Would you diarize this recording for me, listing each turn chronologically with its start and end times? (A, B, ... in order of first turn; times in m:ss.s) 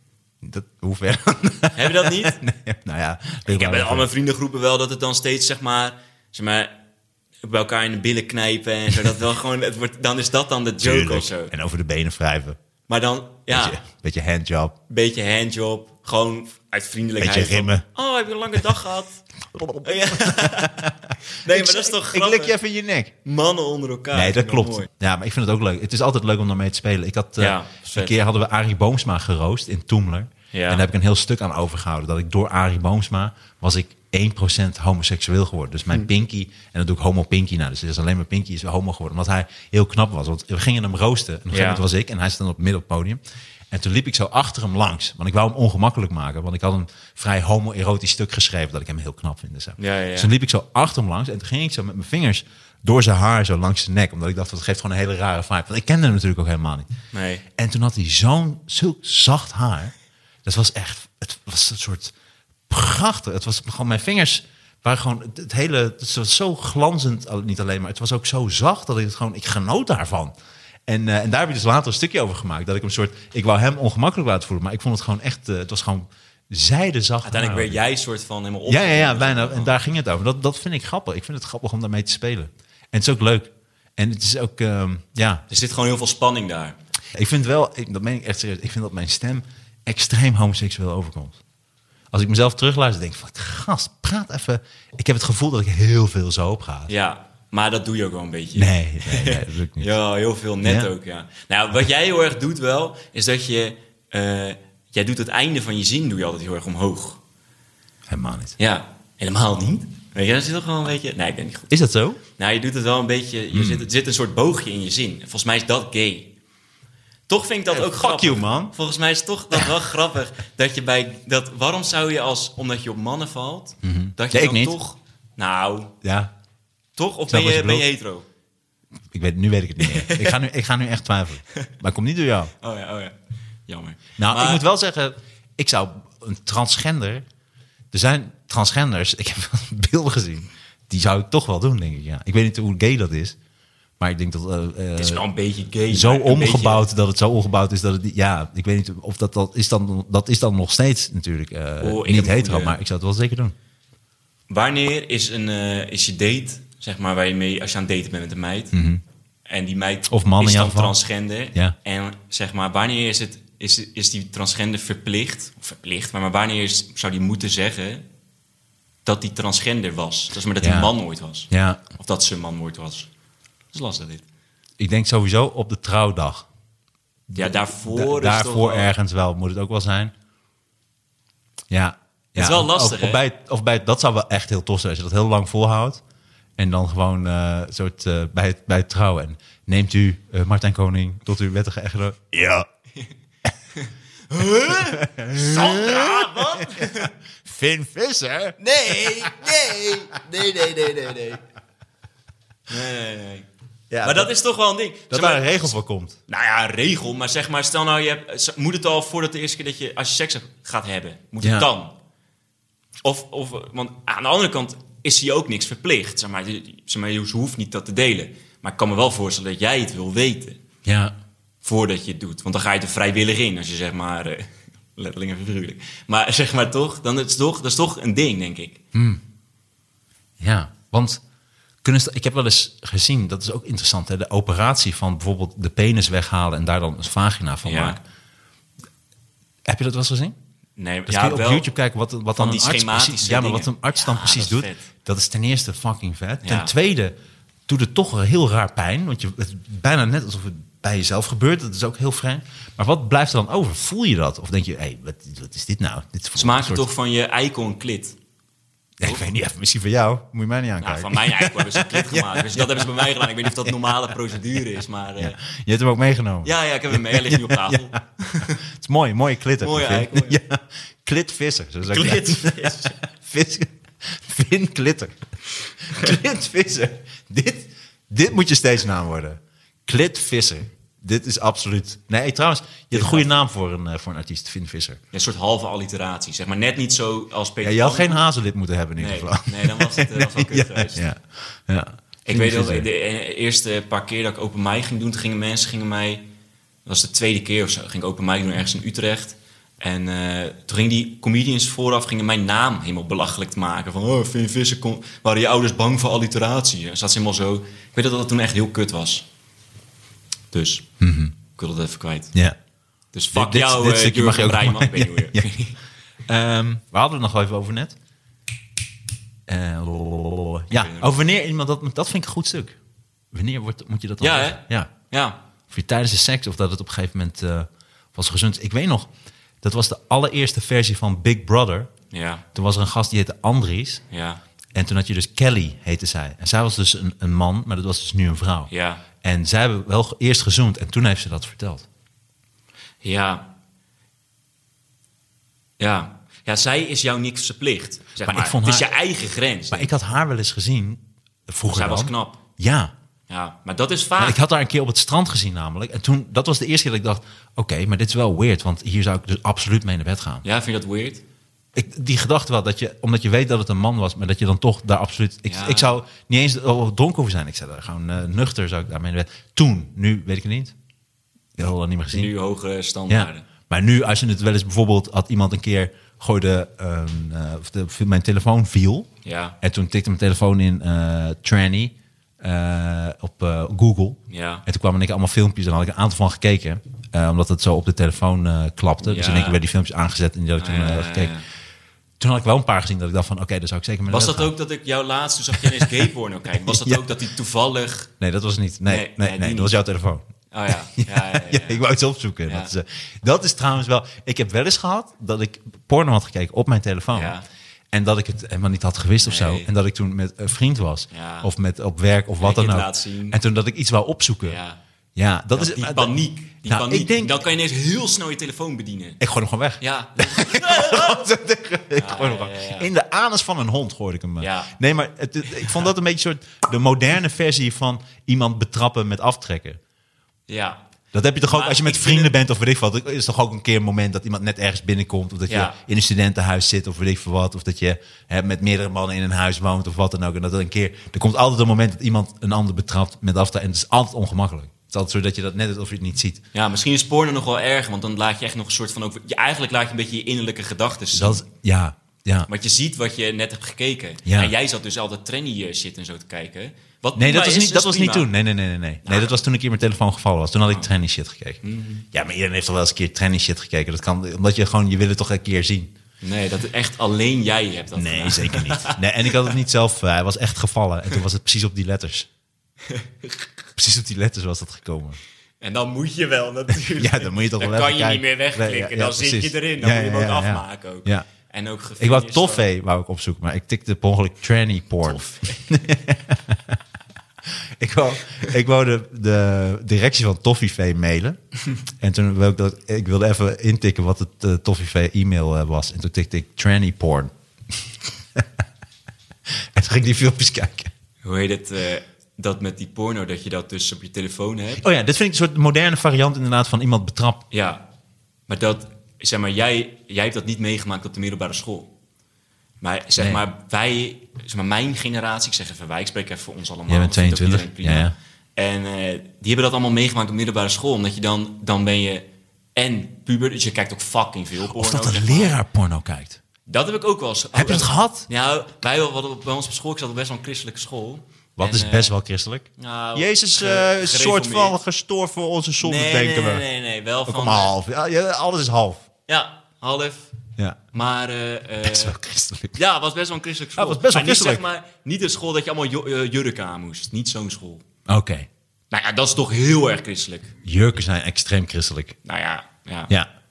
0:00.4-0:04.1 A
0:01.7-0:02.4 B
0:03.5-0:06.7 B
0:07.4-0:11.5 B
0:10.8-0:12.6 A
0:12.9-0:13.8 B
0:13.5-0:14.8 A
0:14.9-0:19.2 B
0:17.2-0:17.8 A
0:19.5-0:23.1 A
0:19.8-0:20.8 B
0:21.4-0:22.6 B
0:23.2-0:24.9 B
0:24.1-0:43.2 A
0:27.4-0:28.2 B
0:30.5-0:30.8 B
0:41.5-0:41.8 B
0:43.7-0:56.9 A
0:49.8-0:50.3 B
0:57.1-0:57.4 B
0:57.6-0:59.9 A
1:00.4-1:02.1 A
1:02.7-1:10.3 A
1:10.9-1:17.8 A
1:17.2-1:19.7 B
1:18.7-1:25.4 A
1:25.5-1:26.8 B
1:27.1-1:31.4 A
1:32.1-1:36.9 A
1:36.9-1:47.2 B
1:38.5-1:39.9 A
1:40.6-1:40.9 A
1:48.1-1:48.6 A
1:48.6-1:51.7 B
1:51.7-1:52.2 A
1:52.4-1:56.3 B
1:53.5-1:53.9 A
1:57.3-2:05.9 B
1:57.7-1:58.7 A
2:03.8-2:04.8 A
2:06.0-2:06.3 A
2:07.0-2:08.2 B
2:07.3-2:07.9 A
2:09.1-2:12.5 A
2:09.8-2:10.4 B
2:12.6-2:14.6 B
2:14.2-2:17.2 A
2:17.9-2:23.4 A
2:24.0-2:25.2 A
2:25.0-2:26.9 B
2:25.9-2:33.5 A
2:31.8-2:32.8 B
2:34.5-2:38.7 B
2:38.7-2:39.0 A
2:39.5-2:48.0 B
2:40.1-2:41.0 A
2:49.0-2:53.1 B
2:50.6-2:50.9 A
2:51.5-2:51.8 A
2:53.7-2:54.2 B
2:54.8-2:56.4 A
2:57.3-3:00.1 A
2:57.4-2:58.9 B
3:01.7-3:06.0 A
3:02.4-3:03.2 B
3:06.6-3:12.7 A
3:13.7-3:17.1 B
3:14.8-3:19.9 A
3:18.6-3:21.4 B
3:22.7-3:23.5 B
3:23.9-3:24.3 A
3:24.0-3:25.7 B
3:25.1-3:26.2 A
3:26.3-3:31.9 B
3:31.4-3:31.7 A
3:33.0-3:40.6 B
3:40.8-3:41.1 A
3:41.6-3:48.8 B
3:48.9-3:49.2 A
3:50.4-3:51.2 A
3:51.8-3:58.0 A
3:57.6-3:58.0 B
3:59.6-4:00.4 A
4:00.8-4:01.7 B
4:01.1-4:07.1 A
4:02.4-4:04.8 B
4:06.4-4:06.7 B
4:07.7-4:16.9 A
4:16.4-4:18.2 B
4:19.0-4:23.7 A
4:20.8-4:25.4 B
4:25.2-4:35.2 A
4:26.4-4:28.6 B
4:29.6-4:30.4 B
4:31.9-4:33.0 B
4:35.8-4:45.0 A
4:42.9-4:43.3 B
4:45.1-4:48.2 B
4:47.6-4:52.9 A
4:49.0-4:51.0 B
4:52.2-4:56.2 B
4:56.8-5:09.2 B
5:10.5-5:10.9 B
5:11.0-5:11.3 A
5:11.5-5:12.3 B
5:13.1-5:15.8 B
5:13.3-5:15.5 A
5:16.3-5:18.0 A
5:19.5-5:22.8 A
5:20.7-5:21.2 B
5:23.3-5:24.9 A
5:24.2-5:25.4 B
5:25.7-5:29.1 A
5:29.6-5:31.9 A
5:32.1-5:32.4 B
5:32.5-5:34.0 A
5:34.1-5:34.4 B
5:34.7-5:38.7 A
5:38.7-5:39.0 B
5:39.2-5:41.8 A
5:43.0-5:43.5 B
5:45.8-5:49.9 B
5:48.2-5:48.9 A
5:49.7-5:52.9 A
5:51.7-5:52.4 B
5:53.3-5:54.4 B
5:54.2-6:00.4 A
6:00.4-6:01.2 B
6:01.7-6:10.7 A
6:05.5-6:06.0 B
6:11.6-6:12.3 A
6:12.1-6:13.4 B
6:13.1-6:19.1 A
6:19.2-6:19.6 B
6:19.6-6:31.3 A
6:24.3-6:24.6 B
6:29.0-6:29.6 B
6:30.6-6:31.4 B
6:32.2-6:34.5 A
6:34.1-6:38.1 B
6:36.6-6:37.0 A
6:38.2-6:40.3 A
6:38.9-6:39.7 B
6:40.5-6:41.8 B
6:40.9-6:47.4 A
6:47.1-6:47.4 B
6:47.9-6:54.6 A
6:49.2-6:49.7 B
6:51.1-6:51.5 B
6:52.4-6:53.4 B
6:54.4-6:54.8 B
6:55.2-6:56.1 A
6:55.5-6:59.2 B
6:56.6-6:57.4 A
6:59.2-7:09.8 A
6:59.8-7:01.3 B
7:02.0-7:02.9 B
7:04.4-7:04.7 B
7:10.5-7:10.8 B
7:11.1-7:26.4 A
7:11.4-7:12.3 B
7:15.5-7:15.8 B
7:26.5-7:31.4 B
7:31.1-7:32.5 A
7:32.5-7:38.3 B
7:34.2-7:34.5 A
7:37.2-7:45.9 A
7:39.0-7:39.4 B
7:41.6-7:42.0 B
7:46.2-7:49.5 B
7:48.0-7:52.3 A
7:52.8-7:53.5 B
7:53.8-7:55.2 A
7:55.6-8:02.7 B
7:56.9-8:01.3 A
8:02.0-8:06.8 A
8:05.0-8:05.6 B
8:07.8-8:11.4 A
8:12.0-8:17.3 A
8:19.7-8:20.9 A
8:21.2-8:24.8 B
8:24.8-8:27.4 A
8:27.5-8:27.8 B
8:28.5-8:31.9 B
8:32.8-8:45.6 B
8:33.2-8:33.4 A
8:36.9-8:38.1 A
8:44.7-8:46.4 A
8:46.6-8:52.1 B
8:47.5-8:48.3 A
8:51.6-8:56.6 A
8:52.8-8:54.8 B
8:55.8-8:57.7 B
8:57.2-8:59.1 A
8:59.3-9:00.3 B
9:00.9-9:02.1 B
9:01.8-9:02.8 A
9:02.7-9:07.8 B
9:03.8-9:04.6 A
9:08.1-9:08.5 A
9:08.9-9:10.5 B
9:10.6-9:12.2 A
9:12.2-9:13.1 B